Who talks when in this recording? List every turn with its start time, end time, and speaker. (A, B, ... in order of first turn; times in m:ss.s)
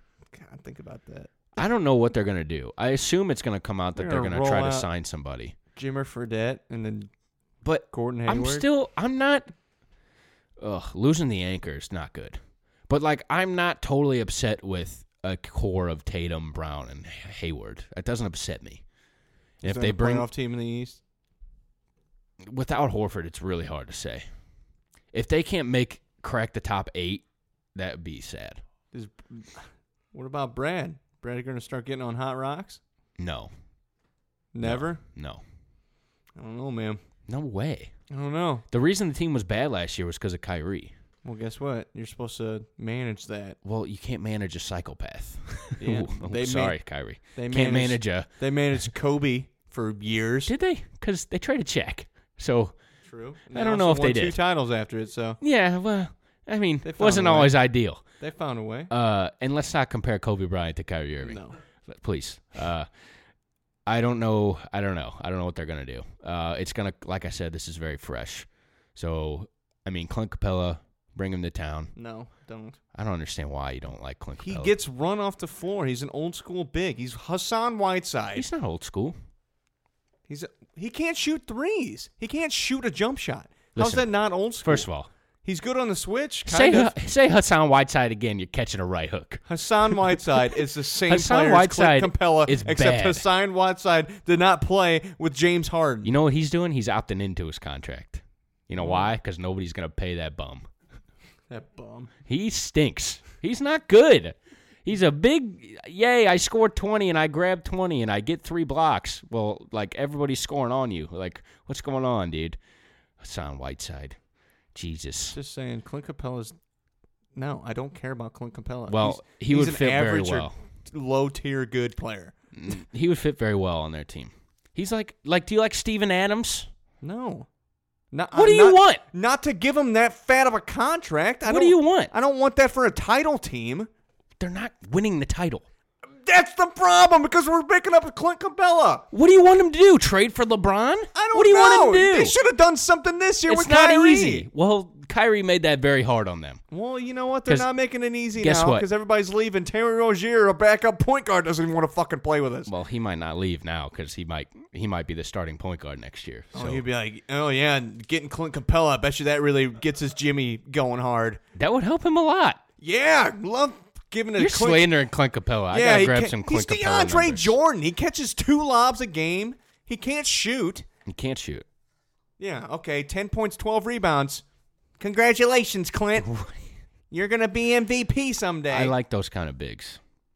0:00.3-0:01.6 A
0:01.6-0:05.6 B
0:04.0-0:04.9 A
0:05.8-0:07.1 A
0:07.6-0:09.5 B
0:07.9-0:08.7 A
0:10.6-0:18.8 B
0:19.6-0:20.3 B
0:19.6-0:21.0 A
0:22.4-0:24.3 B
0:25.1-0:27.2 B
0:27.8-0:28.6 B
0:28.9-0:32.8 A
0:33.2-0:33.5 B
0:34.5-0:35.0 A
0:34.6-0:35.4 B
0:36.4-0:37.0 A
0:37.3-0:37.9 B
0:38.1-0:38.6 A
0:38.7-0:40.9 B
0:41.2-0:43.6 A
0:43.6-0:48.3 B
0:45.8-0:46.8 A
0:47.4-0:50.5 A
0:50.5-0:52.8 B
0:53.0-0:55.4 A
0:53.5-0:54.4 B
0:55.4-0:58.0 B
0:56.8-0:57.6 A
0:58.2-0:58.9 A
0:58.9-1:02.9 B
1:01.2-1:01.6 A
1:03.9-1:11.9 B
1:12.0-1:12.8 A
1:12.9-1:14.8 B
1:14.4-1:18.5 A
1:18.4-1:19.2 B
1:20.3-1:24.9 A
1:23.8-1:24.1 B
1:24.6-1:25.1 B
1:25.4-1:26.9 A
1:26.5-1:29.4 B
1:29.5-1:36.1 A
1:31.1-1:33.3 B
1:36.0-1:40.7 B
1:38.8-1:39.1 A
1:41.5-1:42.1 A
1:42.3-1:52.6 B
1:53.2-1:54.2 B
1:54.7-1:55.4 B
1:55.3-1:56.6 A
1:57.4-2:02.4 A
1:58.9-2:00.5 B
2:02.5-2:06.7 B
2:07.0-2:07.5 A
2:08.1-2:13.9 A
2:08.3-2:09.0 B
2:11.5-2:12.1 B
2:14.4-2:15.7 B
2:16.2-2:19.1 A
2:19.1-2:22.4 B
2:21.2-2:24.5 A
2:23.5-2:26.6 B
2:26.7-2:32.7 A
2:28.4-2:28.9 B
2:32.7-2:36.8 B
2:36.5-2:41.4 A
2:41.6-2:42.6 B
2:42.8-2:44.9 A
2:44.4-2:47.6 B
2:45.7-2:50.9 A
2:51.1-2:51.6 B
2:52.4-2:54.4 A
2:55.0-2:56.3 A
2:56.2-2:56.6 B
2:57.1-2:58.9 A
2:58.7-3:00.0 B